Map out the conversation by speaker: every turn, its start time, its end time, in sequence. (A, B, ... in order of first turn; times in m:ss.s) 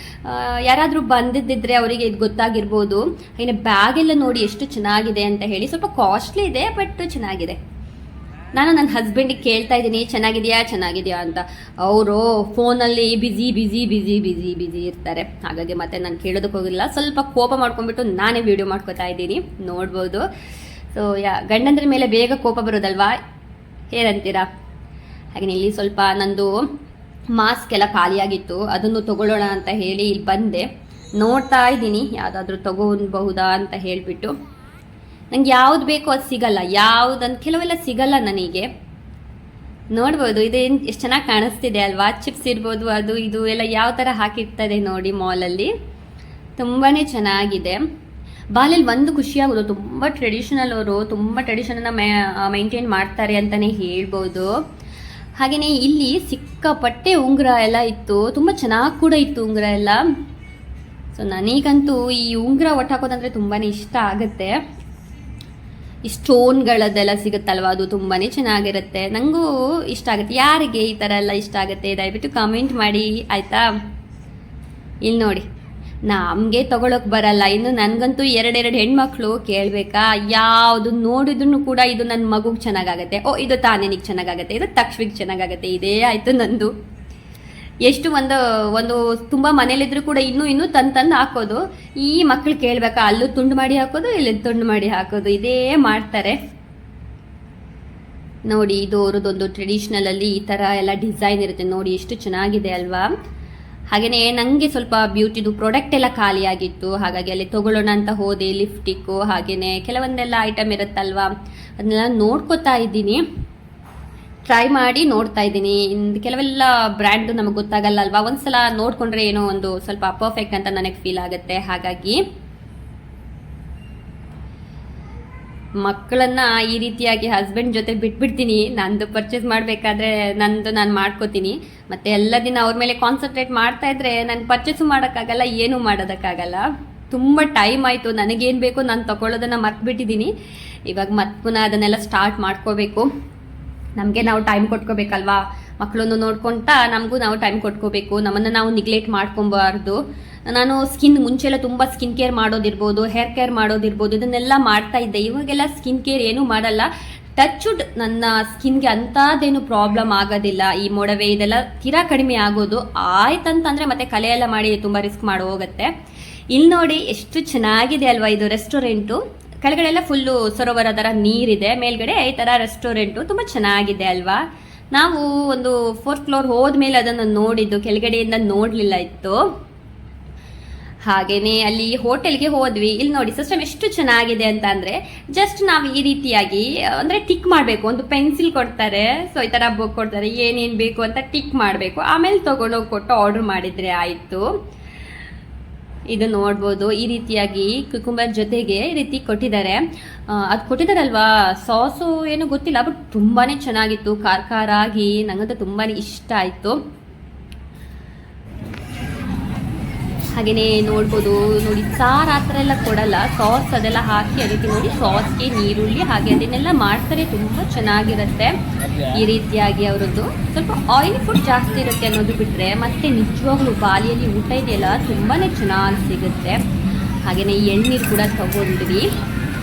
0:00.2-0:07.6 A
0:08.5-0:20.2 A
0:20.9-0:23.2 A
0:23.9-0:24.5 A
0:25.3-0:26.5 A
0:27.3-0:34.3 A
0:35.3-0:38.7 A
0:39.9-0:45.7 A
0:46.6-0:47.8 A
0:48.5-0:54.5 A
0:55.4-1:00.0 A
1:01.1-1:04.5 A
1:06.1-1:13.7 A
1:15.0-1:15.4 A
1:16.1-1:26.7 A
1:27.8-1:36.4 A
1:38.5-1:43.1 A
1:43.9-1:53.2 A
1:54.5-2:02.2 A
2:05.8-2:20.3 A
2:20.9-2:23.1 A
2:24.0-2:45.9 A
2:46.5-2:54.4 A
2:54.9-2:59.4 A
3:01.1-3:14.4 A
3:16.1-3:26.8 A
3:30.3-3:46.6 A
3:47.2-3:49.0 A